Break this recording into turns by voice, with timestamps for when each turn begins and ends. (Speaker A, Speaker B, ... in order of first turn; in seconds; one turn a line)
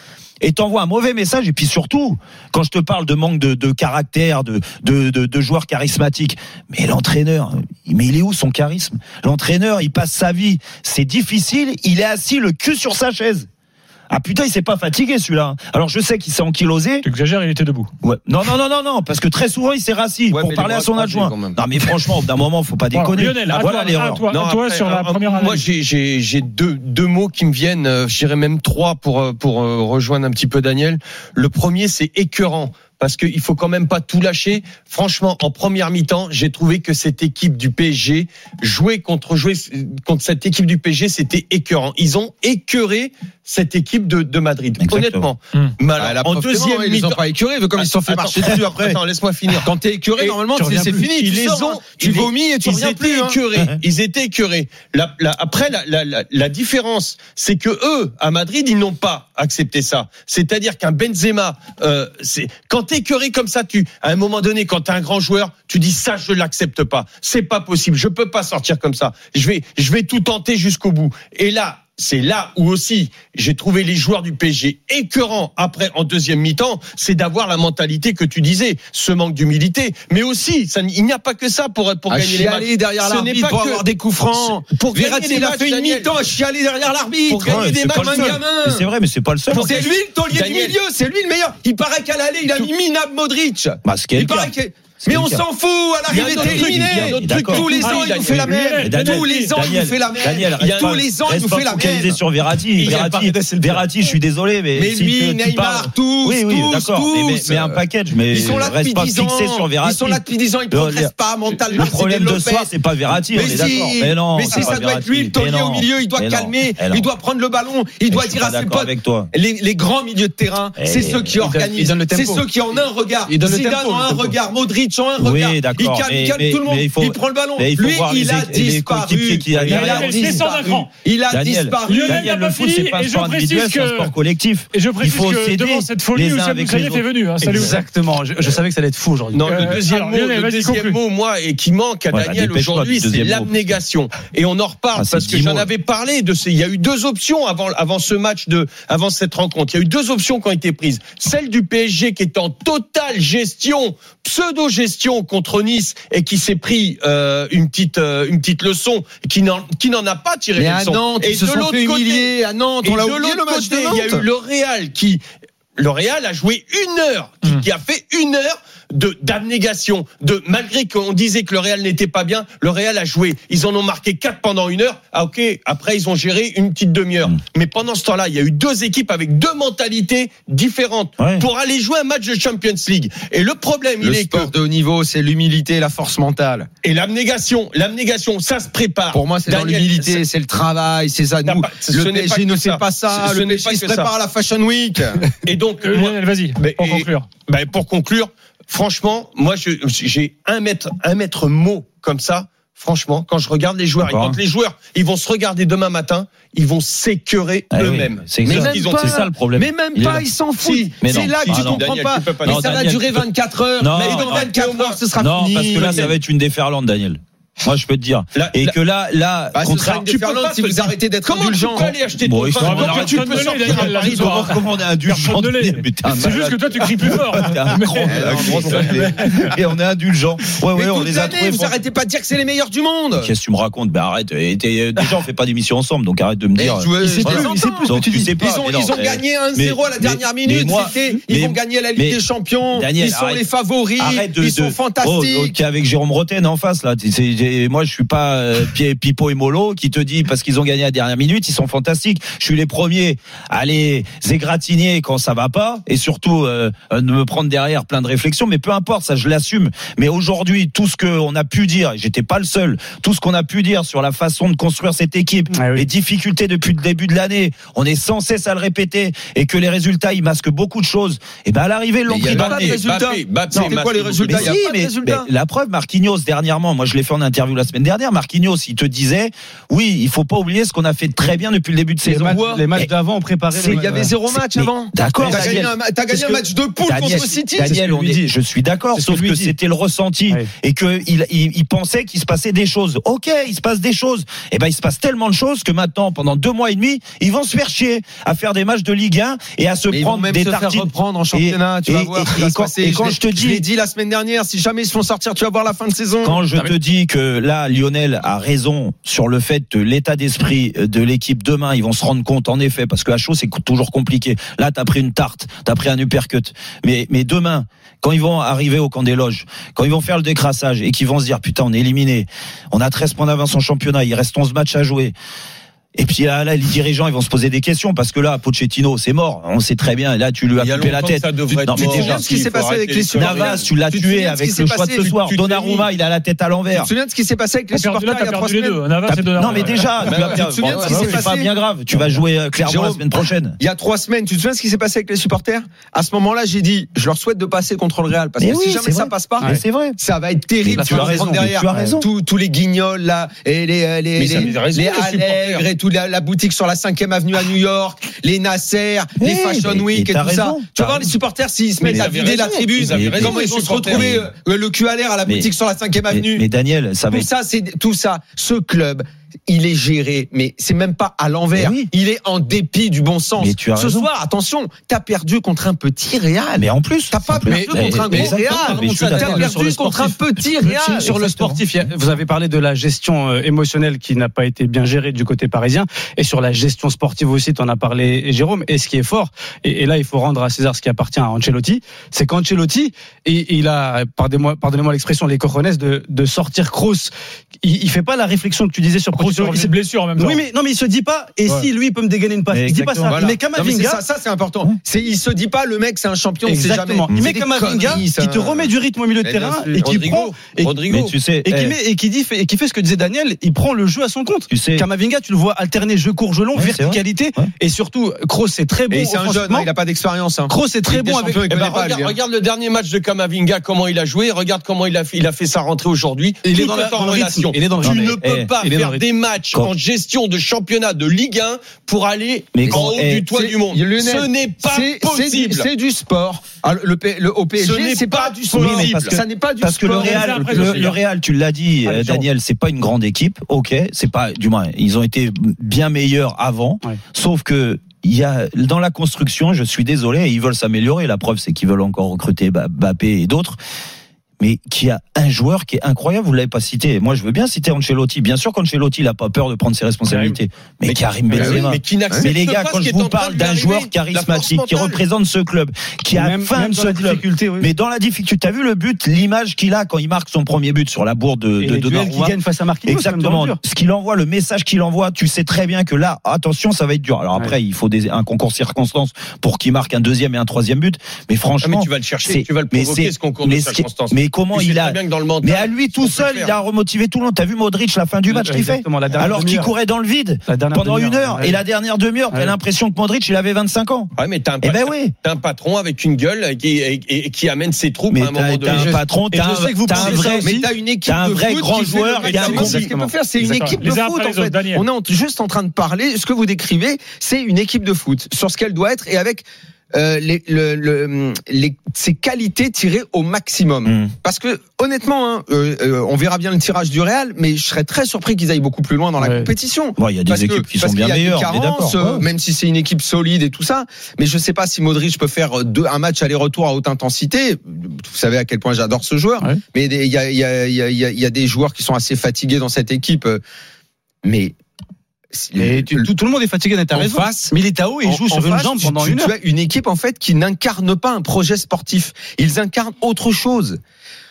Speaker A: 0.4-13.5
Speaker A: 14.1-17.0
Speaker B: 17.0-17.9
Speaker A: 18.0-24.3
Speaker C: 20.3-21.6
Speaker B: 22.9-25.6
Speaker D: 24.3-47.2
Speaker A: 44.8-45.3
Speaker C: 46.0-48.6
Speaker D: 47.8-86.1
Speaker A: 48.4-49.0
Speaker C: 49.6-53.4
Speaker C: 82.1-88.9
Speaker D: 87.3-88.4
Speaker A: 87.4-89.9
Speaker D: 89.5-90.7
Speaker C: 89.5-102.2
Speaker A: 93.8-95.4
Speaker A: 96.1-97.6
Speaker D: 96.1-98.8
Speaker B: 97.7-99.5
Speaker A: 98.8-110.2
Speaker D: 100.6-101.0
Speaker E: 102.8-103.9
Speaker C: 104.8-107.8
Speaker C: 108.3-112.7
Speaker A: 110.7-111.1
Speaker A: 111.7-117.1
Speaker C: 113.3-132.3
Speaker A: 118.1-119.3
Speaker A: 120.8-121.3
Speaker E: 121.3-122.4
Speaker E: 123.3-124.3
Speaker A: 125.2-130.4
Speaker B: 129.7-130.9
Speaker A: 131.3-137.8
Speaker B: 131.8-134.1
Speaker B: 134.7-137.8
Speaker E: 137.4-139.7
Speaker D: 139.3-162.3
Speaker B: 139.4-141.0
Speaker A: 142.1-143.7
Speaker A: 144.9-145.7
Speaker C: 160.6-164.2
Speaker D: 162.8-165.2
Speaker D: 165.8-184.5
Speaker A: 181.2-181.4
Speaker C: 184.0-186.7
Speaker D: 186.8-190.2
Speaker C: 189.1-195.2
Speaker D: 191.5-194.1
Speaker D: 195.4-209.2
Speaker B: 195.8-197.3
Speaker A: 204.0-204.4
Speaker A: 207.7-210.3
Speaker C: 208.4-216.1
Speaker D: 210.6-212.8
Speaker A: 211.0-211.9
Speaker A: 212.4-213.2
Speaker A: 213.8-214.5
Speaker D: 214.0-215.0
Speaker A: 215.2-220.1
Speaker D: 215.6-216.1
Speaker D: 218.3-218.8
Speaker C: 219.5-221.9
Speaker D: 220.1-224.5
Speaker A: 222.2-231.7
Speaker B: 222.6-229.5
Speaker C: 228.0-229.1
Speaker C: 230.7-233.3
Speaker A: 233.2-242.2
Speaker C: 236.6-245.5
Speaker E: 237.0-238.3
Speaker A: 242.7-243.4
Speaker A: 244.0-272.8
Speaker E: 265.5-265.8
Speaker C: 272.1-275.3
Speaker D: 272.2-274.5
Speaker A: 273.5-282.9
Speaker E: 282.0-284.1
Speaker C: 282.1-282.7
Speaker A: 283.5-303.6
Speaker C: 283.6-288.1
Speaker E: 285.2-285.6
Speaker E: 287.0-288.3
Speaker E: 288.9-289.5
Speaker C: 299.9-306.4
Speaker A: 306.2-325.1
Speaker A: 325.9-332.3
Speaker D: 330.6-333.6
Speaker C: 331.7-335.1
Speaker A: 333.2-336.9
Speaker D: 335.0-335.9
Speaker C: 336.7-338.8
Speaker B: 337.7-340.1
Speaker A: 339.1-343.6
Speaker C: 340.0-341.5
Speaker C: 342.6-366.4
Speaker A: 348.4-350.0
Speaker A: 350.6-352.1
Speaker E: 350.8-351.9
Speaker D: 354.2-355.7
Speaker A: 359.2-361.1
Speaker D: 361.8-364.1
Speaker A: 361.9-364.3
Speaker A: 366.1-367.3
Speaker C: 367.1-381.1
Speaker A: 371.5-371.9
Speaker A: 373.4-374.1
Speaker A: 376.6-379.6
Speaker E: 377.4-397.1
Speaker A: 380.6-381.6
Speaker E: 397.6-404.0
Speaker B: 399.1-400.4
Speaker A: 402.5-403.2
Speaker C: 403.1-408.7
Speaker E: 406.4-419.7
Speaker A: 407.1-408.0
Speaker C: 409.2-410.0
Speaker D: 409.8-411.1
Speaker A: 410.9-411.8
Speaker A: 414.5-414.9
Speaker A: 416.5-417.5
Speaker C: 418.9-422.1
Speaker E: 420.5-421.5
Speaker D: 421.5-435.7
Speaker E: 426.4-429.0
Speaker A: 427.8-428.5
Speaker A: 432.5-433.3
Speaker C: 432.6-440.9
Speaker D: 437.6-439.2
Speaker A: 438.5-453.6
Speaker B: 439.9-441.0
Speaker B: 441.8-442.2
Speaker A: 454.4-495.1
Speaker D: 460.8-465.0
Speaker C: 461.4-462.3
Speaker E: 466.1-467.7
Speaker E: 471.6-473.6
Speaker D: 481.6-486.5
Speaker E: 488.3-489.7
Speaker E: 490.5-491.6
Speaker D: 494.2-498.9
Speaker A: 498.1-500.5
Speaker E: 498.7-500.7
Speaker C: 500.0-533.4
Speaker A: 501.1-502.8
Speaker D: 502.2-502.8
Speaker B: 502.4-502.8
Speaker E: 502.9-503.1
Speaker B: 503.5-504.9
Speaker A: 513.8-514.1
Speaker E: 519.2-519.5
Speaker A: 520.0-522.0
Speaker C: 534.2-534.5
Speaker C: 535.3-536.1
Speaker E: 535.6-539.3
Speaker C: 536.9-543.8